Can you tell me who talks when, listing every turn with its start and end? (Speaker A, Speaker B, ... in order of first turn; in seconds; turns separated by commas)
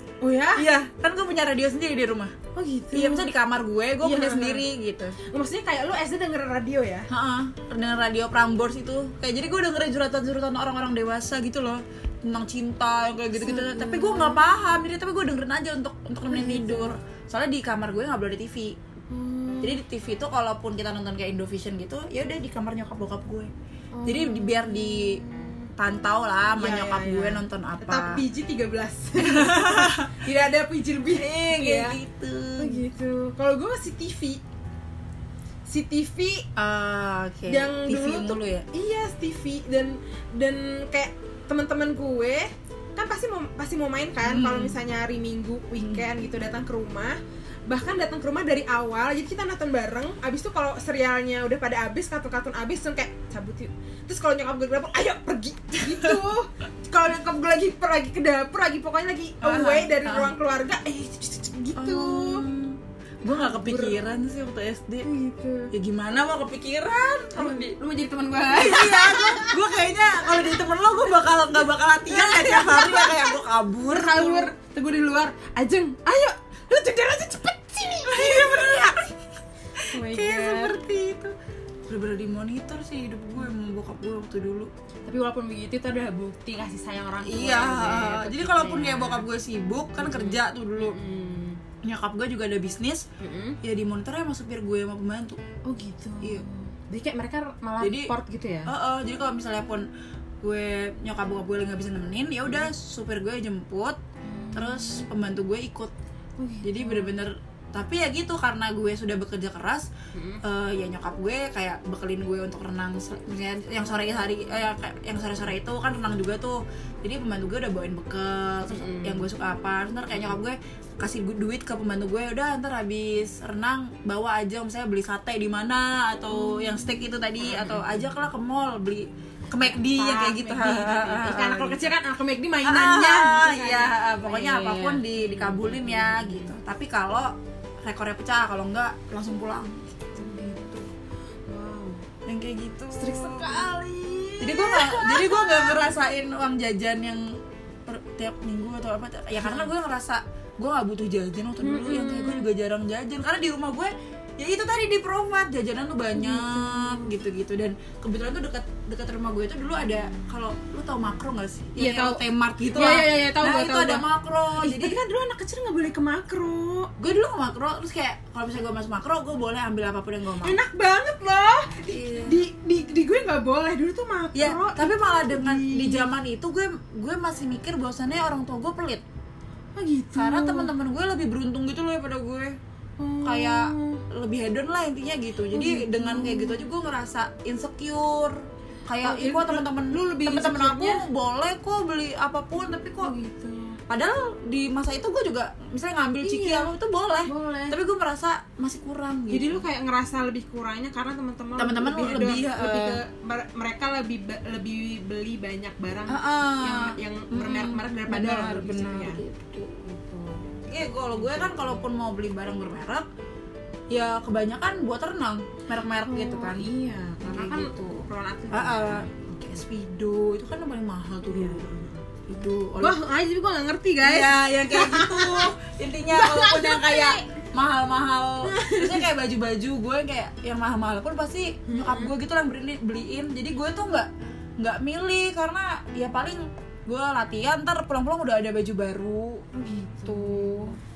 Speaker A: 0.2-0.7, Speaker B: 0.6-2.3, Speaker A: 2.5-3.3, Speaker B: 2.9-5.2, Speaker A: 4.0-4.7, Speaker A: 5.3-7.1, Speaker B: 7.1-18.8, Speaker A: 13.4-14.4, Speaker A: 16.3-16.9, Speaker A: 19.1-19.8, Speaker B: 19.6-23.5, Speaker A: 23.9-25.7, Speaker B: 24.1-25.2, Speaker B: 25.8-28.2, Speaker A: 26.6-32.0, Speaker B: 29.2-30.2, Speaker B: 31.1-32.8, Speaker A: 32.6-34.4, Speaker A: 35.7-36.5, Speaker B: 36.6-38.7, Speaker A: 37.5-62.5, Speaker B: 44.2-44.8, Speaker B: 55.9-56.2, Speaker B: 59.4-60.3, Speaker B: 61.8-65.1, Speaker A: 63.3-64.0, Speaker A: 65.0-65.7, Speaker B: 65.7-67.8, Speaker A: 67.3-69.6, Speaker B: 68.5-74.5, Speaker A: 72.1-78.9, Speaker B: 78.1-79.1, Speaker B: 79.8-81.3, Speaker A: 79.9-80.8, Speaker B: 81.9-84.7, Speaker A: 85.1-89.3, Speaker B: 87.2-91.0, Speaker A: 90.0-91.6, Speaker B: 91.8-93.1, Speaker A: 93.2-93.6, Speaker B: 93.6-95.4, Speaker A: 95.7-98.7, Speaker B: 97.8-98.1, Speaker B: 98.7-99.9, Speaker B: 100.4-104.0, Speaker A: 104.3-105.1, Speaker B: 104.5-105.9, Speaker A: 106.4-107.2, Speaker B: 106.6-109.9, Speaker A: 110.1-110.4, Speaker B: 110.4-131.9, Speaker A: 118.7-119.2, Speaker A: 126.3-127.9, Speaker A: 129.6-136.5, Speaker B: 132.6-140.8, Speaker A: 140.2-140.9, Speaker A: 141.5-142.0, Speaker B: 142.3-143.7, Speaker A: 142.9-145.9, Speaker B: 144.4-165.0, Speaker A: 149.4-149.7, Speaker A: 151.6-152.5, Speaker A: 156.2-157.2, Speaker A: 161.8-164.1, Speaker A: 164.6-166.9, Speaker B: 167.0-170.6, Speaker A: 170.4-176.1, Speaker B: 171.9-172.4, Speaker B: 174.3-179.0, Speaker A: 179.8-180.7, Speaker B: 180.2-182.6, Speaker A: 183.0-184.0, Speaker B: 183.2-193.1, Speaker A: 185.5-186.7, Speaker A: 189.0-191.1, Speaker A: 193.0-193.8, Speaker B: 193.9-199.6, Speaker A: 196.2-196.7, Speaker A: 197.2-197.8, Speaker A: 199.3-209.2, Speaker B: 201.6-203.0, Speaker B: 206.1-209.8, Speaker A: 209.8-210.4, Speaker B: 210.7-213.1, Speaker A: 211.1-211.7, Speaker B: 213.9-216.7, Speaker A: 216.0-219.1, Speaker B: 217.2-221.7, Speaker A: 221.3-222.0, Speaker B: 222.3-223.0, Speaker A: 222.8-225.5, Speaker B: 224.0-239.5, Speaker A: 226.1-227.2, Speaker A: 228.4-229.1, Speaker A: 231.7-232.1, Speaker A: 239.5-240.8, Speaker B: 240.0-240.8